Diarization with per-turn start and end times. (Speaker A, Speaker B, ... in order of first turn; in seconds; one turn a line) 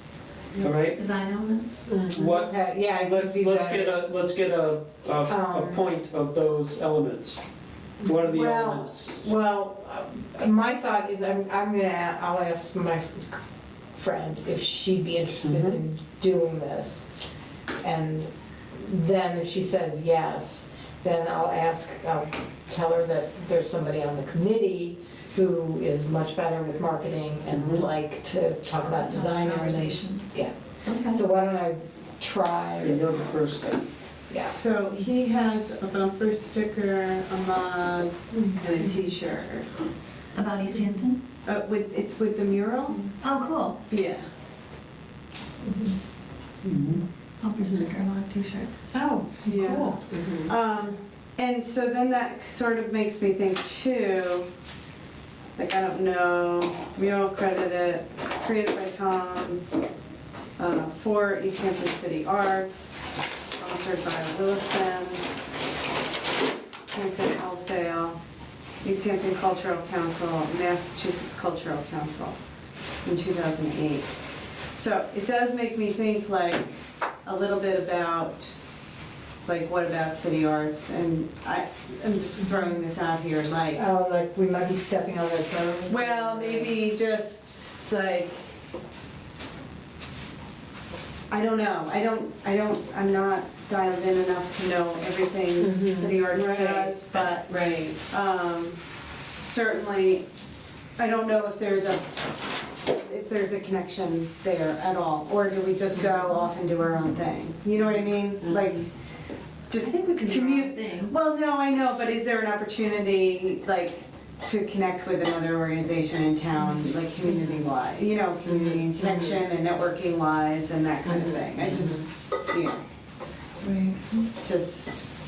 Speaker A: 0.6-1.0
Speaker B: 0.9-1.9
Speaker A: 1.9-7.4
Speaker C: 2.1-4.0
Speaker C: 5.3-5.8
Speaker A: 8.0-9.2
Speaker C: 8.3-13.4
Speaker C: 14.0-17.1
Speaker A: 15.4-15.8
Speaker C: 17.8-30.5
Speaker A: 27.5-27.9
Speaker B: 28.8-30.3
Speaker B: 30.9-31.2
Speaker C: 31.1-33.2
Speaker A: 32.8-33.9
Speaker C: 34.3-34.6
Speaker D: 34.3-39.7
Speaker B: 40.3-41.2
Speaker D: 41.5-43.1
Speaker B: 43.2-43.8
Speaker D: 43.9-44.2
Speaker A: 46.6-47.0
Speaker B: 47.4-48.7
Speaker D: 48.9-54.5
Speaker C: 49.5-49.9
Speaker E: 50.1-50.4
Speaker D: 55.6-59.6
Speaker D: 60.6-65.2
Speaker D: 66.9-68.2
Speaker D: 68.8-72.3
Speaker D: 73.0-74.1
Speaker D: 74.7-78.5
Speaker D: 79.5-83.8
Speaker C: 83.7-86.8
Speaker D: 85.9-88.4
Speaker D: 91.3-97.5
Speaker E: 95.6-98.0
Speaker D: 98.1-98.8
Speaker D: 99.4-100.2
Speaker D: 101.0-108.9
Speaker E: 108.5-108.8
Speaker D: 109.7-122.8
Speaker B: 109.7-111.1
Speaker E: 118.5-119.4
Speaker E: 121.1-122.0
Speaker B: 123.6-124.2
Speaker D: 124.4-125.0